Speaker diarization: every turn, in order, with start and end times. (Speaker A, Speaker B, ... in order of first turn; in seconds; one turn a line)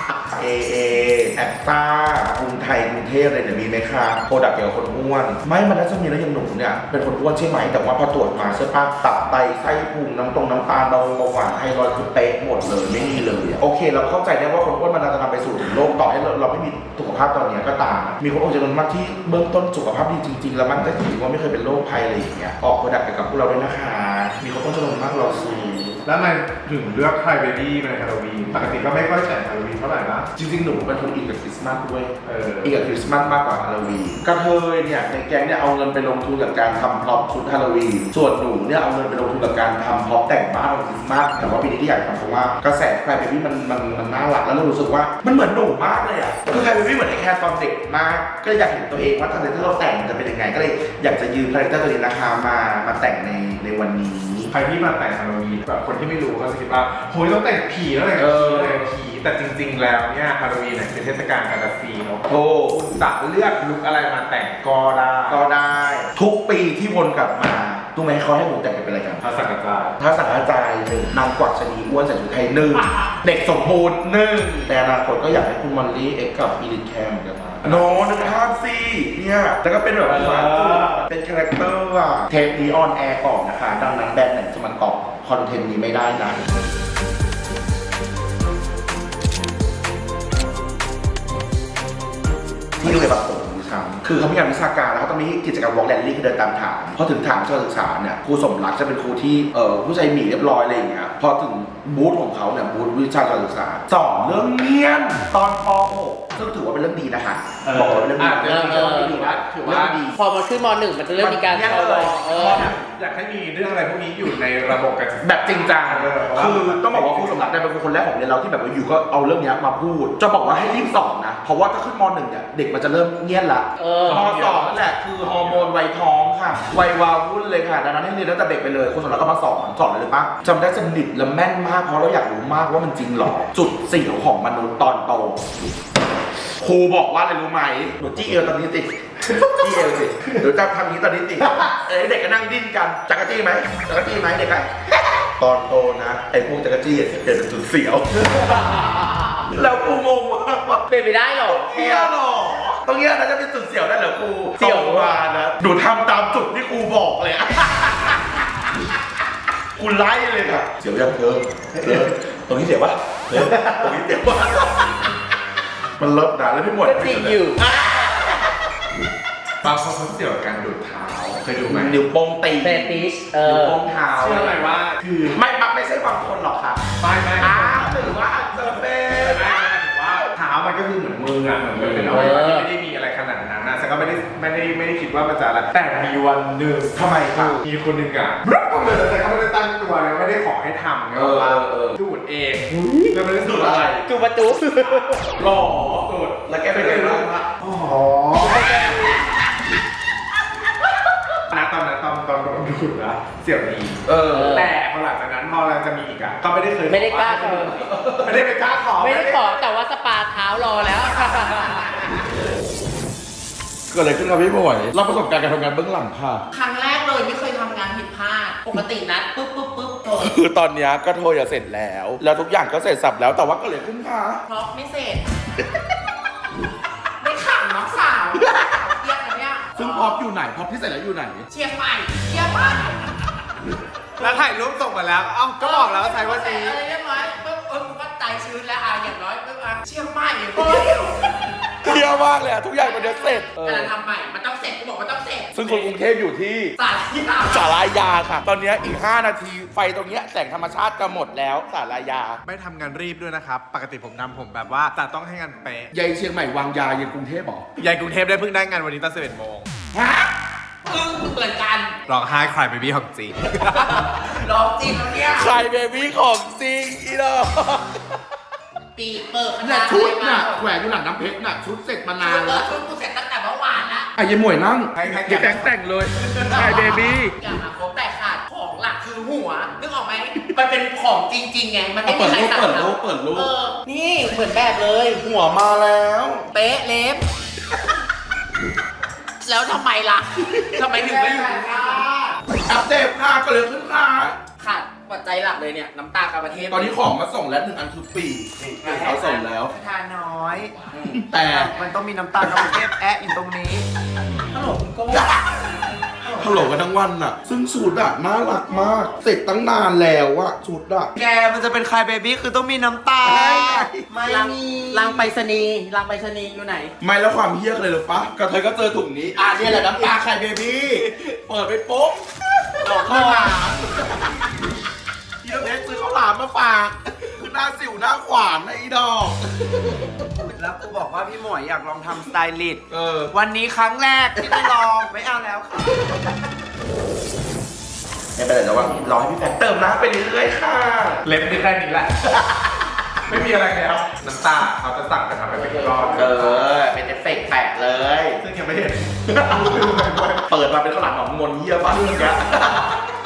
Speaker A: 0.2-26.0
Speaker B: 26.1-30.3
Speaker A: 30.4-54.5
Speaker B: 32.2-32.8
Speaker B: 54.5-65.4
Speaker A: 58.1-58.9
Speaker A: 62.2-62.8
Speaker A: 65.3-69.2
Speaker B: 69.2-70.0
Speaker A: 70.0-86.4
Speaker B: 80.0-81.0
Speaker A: 92.8-110.2
Speaker B: 107.6-110.0
Speaker C: 108.4-109.2
Speaker C: 110.1-112.7
Speaker A: 111.2-112.7
Speaker B: 112.3-117.4
Speaker A: 115.2-135.4
Speaker C: 123.8-124.2
Speaker B: 124.0-125.7
Speaker A: 136.6-148.7
Speaker C: 148.4-149.4
Speaker A: 149.4-150.8
Speaker C: 150.9-152.1
Speaker A: 151.4-158.4
Speaker C: 154.6-155.2
Speaker A: 159.7-165.0
Speaker A: 166.0-168.5
Speaker C: 166.8-168.1
Speaker B: 169.6-172.0
Speaker A: 171.7-174.6
Speaker C: 172.6-173.8
Speaker B: 174.1-175.4
Speaker A: 175.3-176.8
Speaker B: 177.0-177.9
Speaker A: 177.4-179.8
Speaker B: 179.1-193.9
Speaker A: 181.7-182.4
Speaker C: 182.1-182.7
Speaker A: 186.9-187.7
Speaker A: 191.1-192.0
Speaker C: 192.8-193.1
Speaker A: 193.4-194.1
Speaker C: 194.1-195.2
Speaker B: 194.7-198.7
Speaker A: 195.2-197.4
Speaker C: 198.5-199.1
Speaker A: 198.6-198.9
Speaker B: 201.5-209.7
Speaker A: 204.1-204.6
Speaker C: 204.3-204.7
Speaker C: 206.9-207.8
Speaker A: 207.7-208.4
Speaker C: 209.0-212.1
Speaker A: 213.9-216.4
Speaker C: 216.5-220.3
Speaker A: 220.1-224.4
Speaker C: 224.5-225.2
Speaker C: 227.2-230.2
Speaker A: 228.4-228.8
Speaker A: 229.7-231.5
Speaker C: 231.5-232.9
Speaker B: 234.2-236.8
Speaker C: 235.6-242.1
Speaker A: 240.6-243.9
Speaker C: 242.8-245.9
Speaker A: 245.5-246.8
Speaker C: 246.8-247.7
Speaker A: 247.4-252.4
Speaker B: 252.4-255.9
Speaker A: 255.9-257.7
Speaker B: 257.8-259.7
Speaker A: 259.9-260.3
Speaker C: 260.9-261.9
Speaker B: 262.1-264.1
Speaker C: 263.8-265.5
Speaker A: 265.1-268.0
Speaker C: 268.9-270.6
Speaker A: 269.6-272.7
Speaker C: 272.2-274.1
Speaker A: 274.1-277.3
Speaker B: 274.9-275.7
Speaker C: 276.4-285.2
Speaker A: 282.0-283.5
Speaker A: 285.2-286.5
Speaker C: 286.5-287.2
Speaker C: 289.4-292.3
Speaker A: 290.4-291.5
Speaker D: 291.6-292.0
Speaker A: 292.5-294.4
Speaker C: 294.6-296.9
Speaker A: 296.7-299.7
Speaker D: 298.8-300.7
Speaker C: 298.8-299.4
Speaker A: 300.9-301.7
Speaker D: 301.2-303.8
Speaker A: 302.4-302.8
Speaker D: 304.6-305.2
Speaker C: 304.6-305.2
Speaker A: 306.4-311.1
Speaker D: 311.2-316.9
Speaker A: 313.2-314.1
Speaker C: 314.2-315.6
Speaker A: 317.0-324.5
Speaker D: 319.4-320.1
Speaker D: 322.8-323.7
Speaker A: 325.4-329.9
Speaker D: 330.5-335.9
Speaker A: 332.9-333.3
Speaker A: 334.4-334.6
Speaker A: 338.4-341.2
Speaker B: 341.2-342.1
Speaker A: 342.2-342.8
Speaker B: 343.3-346.6
Speaker C: 345.5-346.6
Speaker A: 346.1-348.4
Speaker B: 348.4-350.4
Speaker A: 349.3-353.0